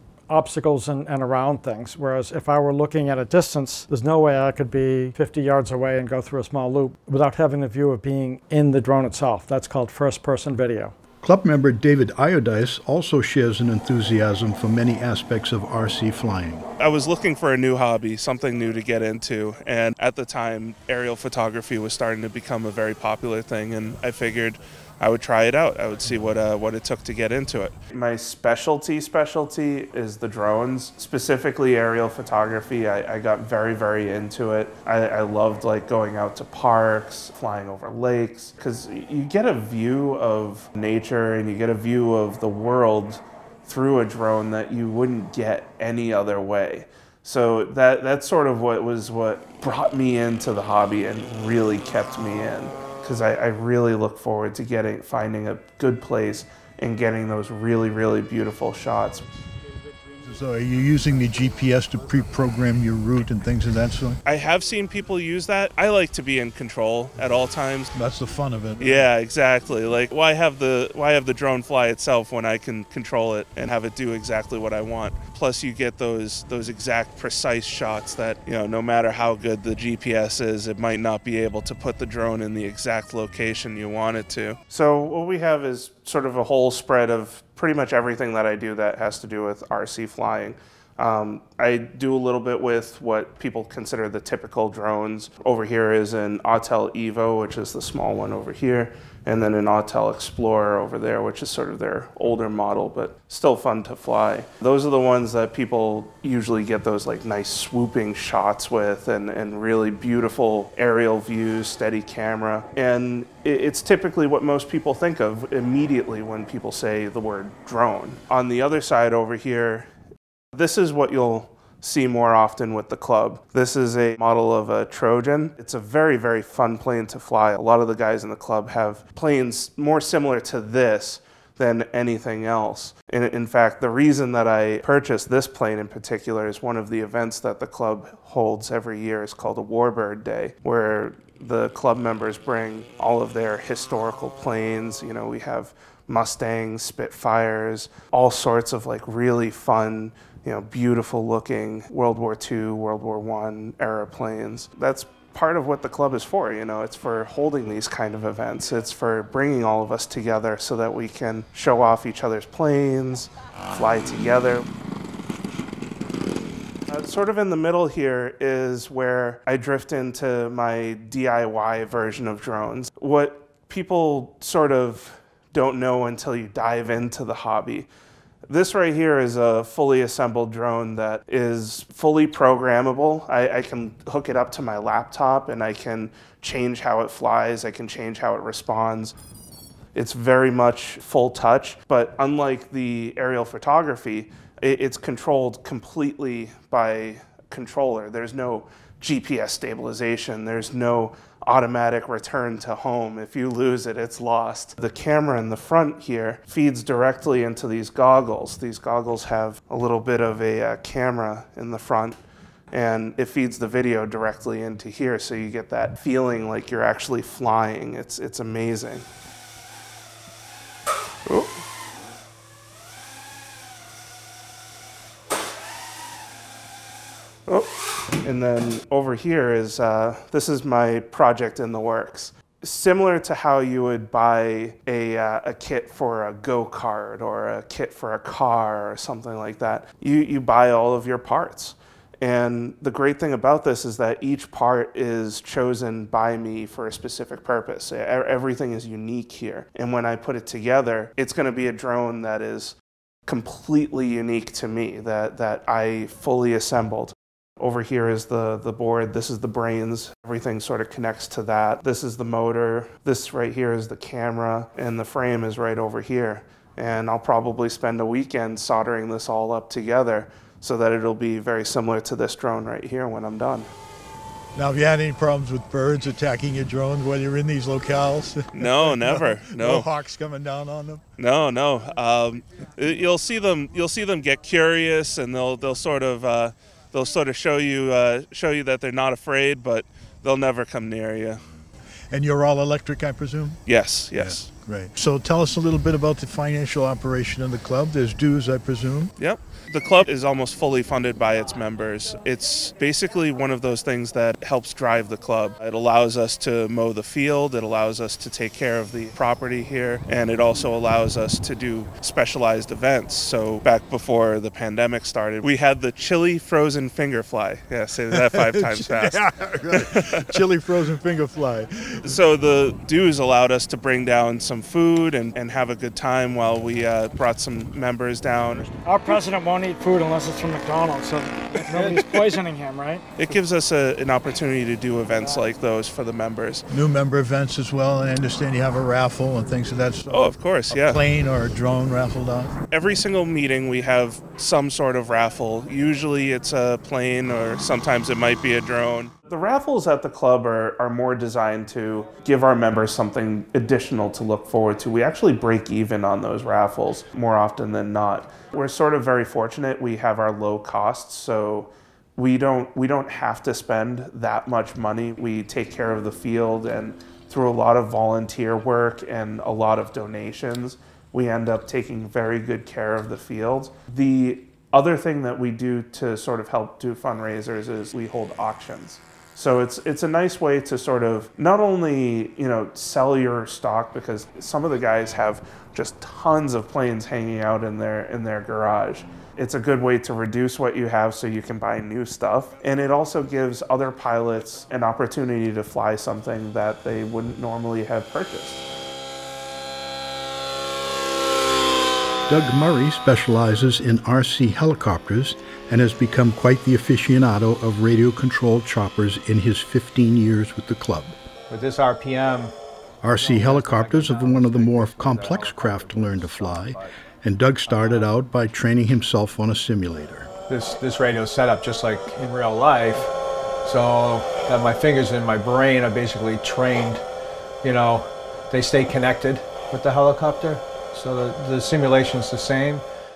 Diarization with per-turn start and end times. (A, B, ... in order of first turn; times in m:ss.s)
0:00.3-0:11.0 A
0:11.2-0:16.7 B
0:16.8-0:59.3 C
1:00.2-1:04.2 D
1:04.2-1:07.9 C
1:07.9-1:09.0 D
1:08.8-1:59.9 C
2:00.5-2:44.7 C
2:46.9-2:57.9 C
2:58.5-3:09.2 C
3:10.0-3:32.2 C
3:32.7-3:39.1 C
3:41.3-3:41.6 C
3:47.5-4:12.8 C
4:13.3-4:33.7 C
4:34.6-4:41.0 D
4:38.6-4:39.9 C
4:41.2-4:51.4 C
4:52.1-4:53.6 D
4:53.7-4:54.5 C
4:54.2-4:59.1 D
4:59.2-5:20.4 C
5:18.1-5:22.2 D
5:22.0-5:28.7 C
5:28.8-5:33.1 A
5:31.7-5:32.0 C
5:33.2-5:36.7 C
5:36.7-5:42.6 D
5:40.1-5:41.0 C
5:42.7-6:38.6 C
6:42.3-6:51.2 B
6:51.5-6:52.5 E
6:53.0-7:00.3 B
6:53.2-6:54.0 E
7:00.5-7:03.1 E
7:03.6-7:07.0 E
7:07.6-7:12.8 E